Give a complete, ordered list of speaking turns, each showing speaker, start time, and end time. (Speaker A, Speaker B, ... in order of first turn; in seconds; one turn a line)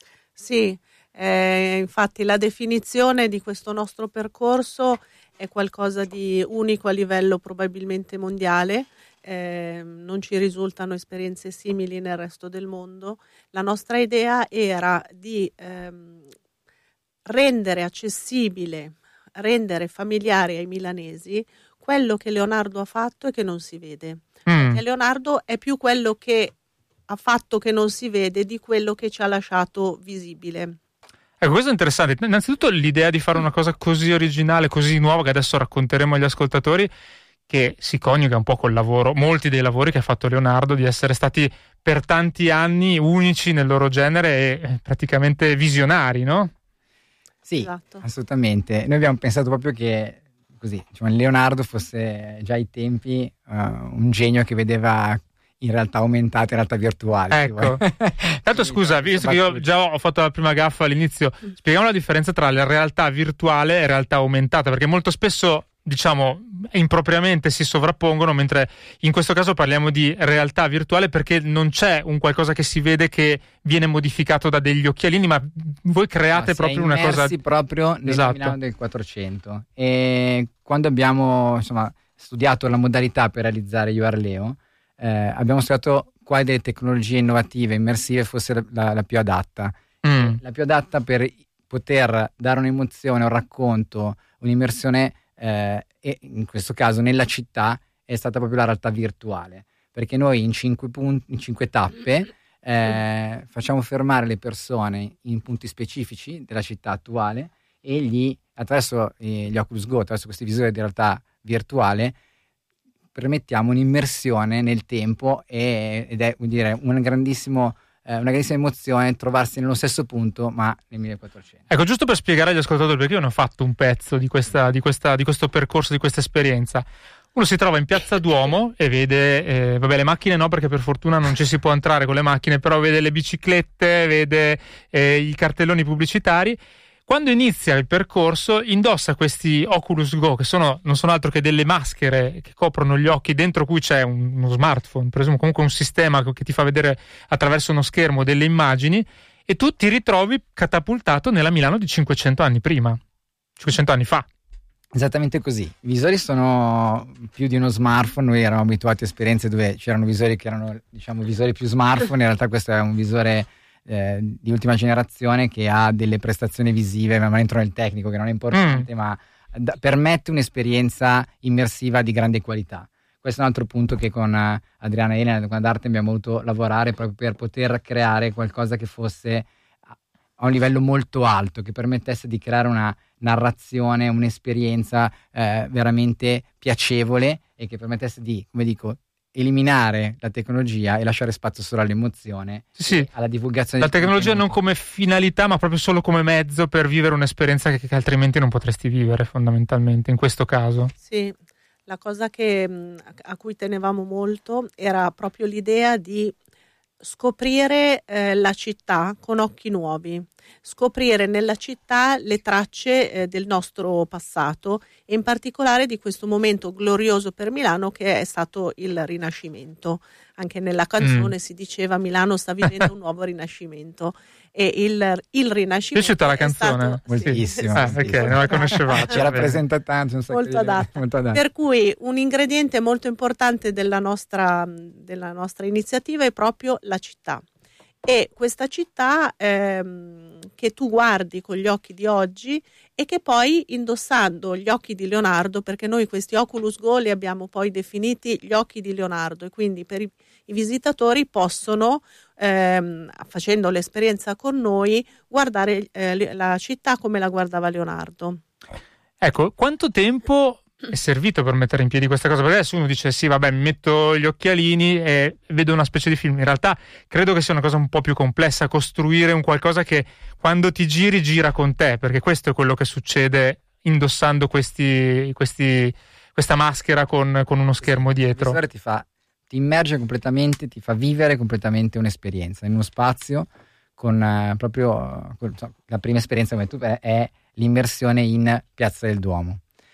Speaker A: 0.3-16.2
Speaker A: 17.3-26.5
Speaker B: 24.5-24.8
Speaker A: 27.1-30.8
Speaker B: 31.4-36.9
Speaker B: 37.5-46.5
Speaker C: 47.4-59.7
Speaker A: 47.6-48.0
Speaker B: 57.3-57.8
Speaker B: 58.4-77.3
Speaker C: 76.3-112.2
Speaker B: 78.0-78.5
Speaker B: 90.0-90.4
Speaker C: 113.1-121.6
Speaker B: 121.7-153.0
Speaker B: 153.6-154.3
Speaker C: 154.9-194.6
Speaker B: 168.5-168.9
Speaker B: 192.8-193.1
Speaker B: 193.8-200.9
Speaker A: 201.0-201.3
Speaker A: 201.9-206.3
Speaker A: 207.0-229.2
Speaker B: 221.0-221.3
Speaker B: 225.9-229.6
Speaker C: 227.1-231.4
Speaker A: 230.3-237.4
Speaker A: 238.0-258.4
Speaker B: 259.2-278.6
Speaker C: 277.8-289.6